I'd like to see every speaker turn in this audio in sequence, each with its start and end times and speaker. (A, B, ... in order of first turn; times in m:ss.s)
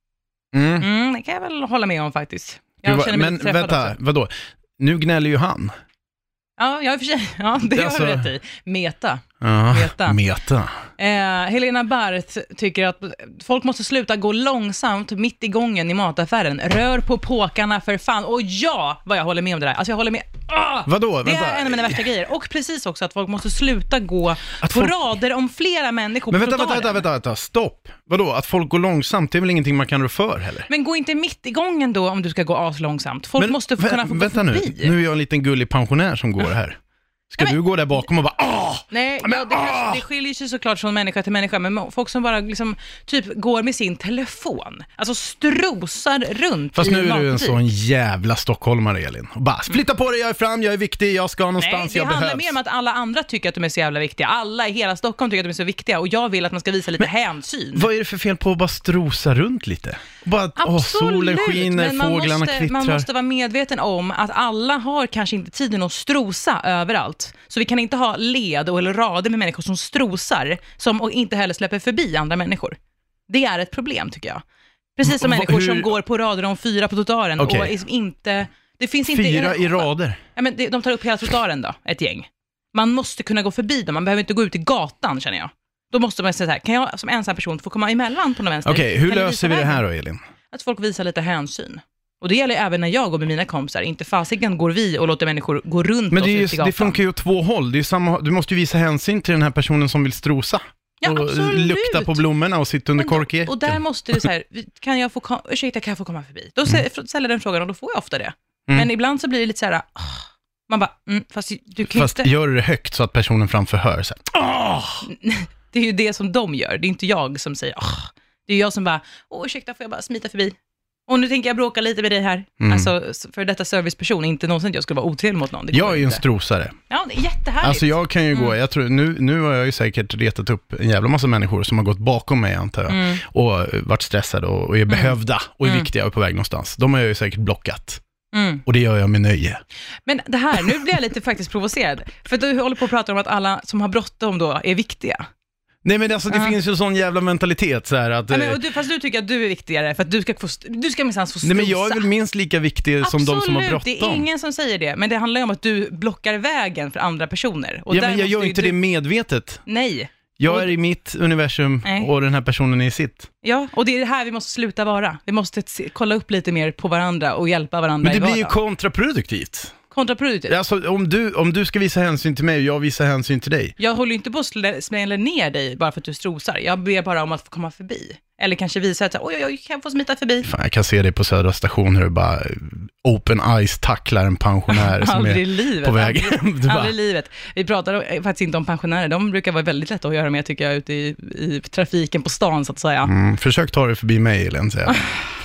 0:00.5-0:00.9 A
0:00.8-0:04.0 B
0:02.8-0:05.7 A
0:06.6-0:10.2 B
0:07.8-0:08.3 A
0:09.4-0:10.7 A
0:11.0-0:27.0 B
0:20.9-0:22.0 A
0:24.6-0:25.0 A
0:26.3-0:30.7 A
0:30.7-0:35.0 B
0:33.4-0:36.8 A
0:37.3-0:40.0 A
0:38.9-0:47.6 B
0:46.7-0:52.6 A
0:51.6-0:57.9 B
0:57.8-1:03.1 A
1:00.6-1:12.8 B
1:13.3-1:14.4 B
1:15.0-1:29.8 B
1:15.0-1:15.9 A
1:17.4-1:17.7 A
1:19.1-1:20.2 A
1:28.6-1:30.2 A
1:30.5-1:37.0 B
1:36.1-1:43.8 A
1:41.0-1:42.2 B
1:43.0-1:52.3 B
1:51.8-1:55.0 A
1:55.0-2:00.6 B
2:01.1-2:06.2 B
2:02.6-2:02.9 A
2:05.7-2:06.8 A
2:06.9-2:08.5 B
2:07.6-2:18.0 A
2:12.9-2:13.2 B
2:15.6-2:15.9 B
2:18.3-2:18.6 B
2:18.7-2:19.6 A
2:20.1-2:25.2 B
2:25.8-2:28.6 A
2:26.3-2:26.6 B
2:28.3-2:32.1 B
2:31.4-2:34.3 A
2:33.0-2:38.8 B
2:37.9-2:39.6 A
2:39.7-2:40.7 B
2:40.4-2:43.3 A
2:41.8-2:42.1 B
2:43.4-2:48.6 B
2:48.0-2:49.7 A
2:49.9-2:50.6 B
2:50.5-2:53.8 A
2:53.8-3:00.5 B
3:00.4-3:06.9 A
3:04.7-3:13.1 B
3:13.0-3:15.1 A
3:14.9-3:15.2 B